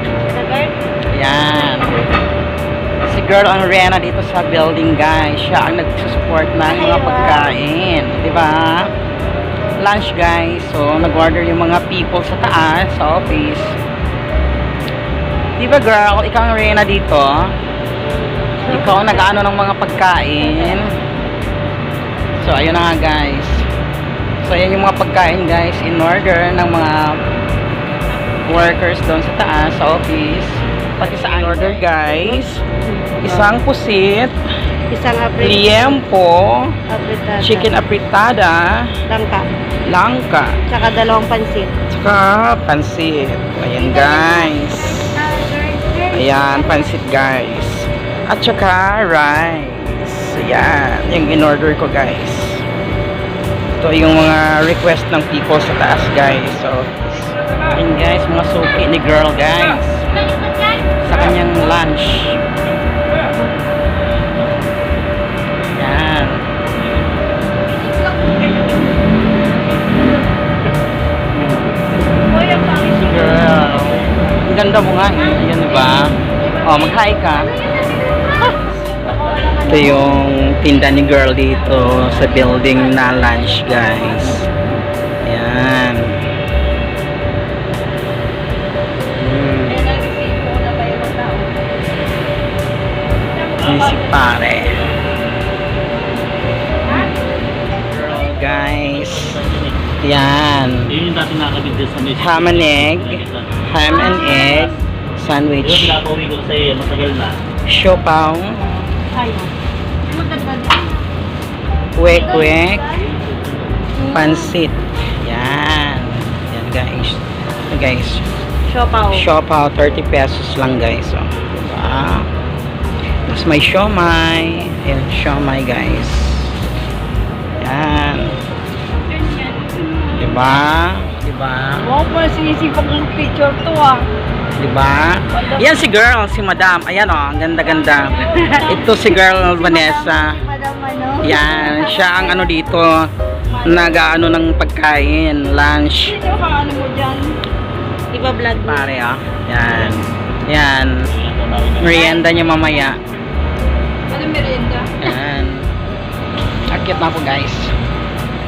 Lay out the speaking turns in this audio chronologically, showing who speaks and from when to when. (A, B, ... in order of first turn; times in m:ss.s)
0:00.3-0:00.7 A
0:01.1-0:02.0 B
0:03.1-0:08.9 B
0:06.7-0:07.6 A
0:09.8-0:13.7 B
0:15.6-0:17.3 B
0:18.6-0:19.4 A
0:18.7-0:20.9 B
0:20.4-0:20.8 A
0:22.4-0:23.6 B
0:24.4-0:27.0 B
0:28.4-0:32.6 B
0:31.0-0:32.3 A
0:33.2-0:34.3 B
0:34.9-0:36.0 A
0:35.4-0:36.7 B
0:36.9-0:37.7 A
0:37.4-0:38.7 B
0:39.1-0:39.4 A
0:39.9-0:40.6 B
0:40.7-0:41.7 A
0:41.9-0:45.0 B
0:43.8-0:47.0 A
0:46.1-0:52.6 B
0:53.8-1:00.1 B
1:01.0-1:02.4 B
1:05.8-1:06.4 B
1:11.4-1:11.8 B
1:12.3-1:13.2 A
1:12.9-1:16.1 B
1:15.3-1:15.9 A
1:16.6-1:17.5 B
1:18.3-1:20.1 A
1:18.4-1:18.7 B
1:19.7-1:24.5 B
1:22.0-1:24.5 A
1:25.2-1:26.2 B
1:29.2-1:29.8 B
1:29.7-1:31.6 A
1:33.4-1:34.1 A
1:33.6-1:34.8 B
1:37.9-1:39.4 B
1:40.0-1:40.9 B
1:41.0-1:43.4 C
1:42.2-1:46.0 B
1:43.9-1:44.7 A
1:45.8-1:47.3 C
1:47.7-1:48.8 B
1:49.1-1:49.5 A
1:50.1-1:51.0 A
1:52.0-1:52.9 B
1:52.1-1:53.1 A
1:54.0-1:54.5 A
1:54.1-1:58.3 B
1:58.7-1:59.3 A
1:59.1-2:02.3 B
2:03.3-2:06.5 B
2:07.6-2:08.4 B
2:09.2-2:10.4 A
2:10.2-2:11.9 B
2:11.8-2:14.0 A
2:14.6-2:20.4 B
2:15.4-2:15.6 A
2:18.1-2:22.5 A
2:21.2-2:23.0 B
2:23.6-2:24.0 A
2:23.6-2:26.2 B
2:26.2-2:27.4 A
2:28.1-2:28.9 A
2:28.6-2:30.9 B
2:31.3-2:31.7 C
2:31.8-2:33.0 B
2:34.1-2:34.9 A
2:35.0-2:35.7 B
2:36.7-2:37.7 B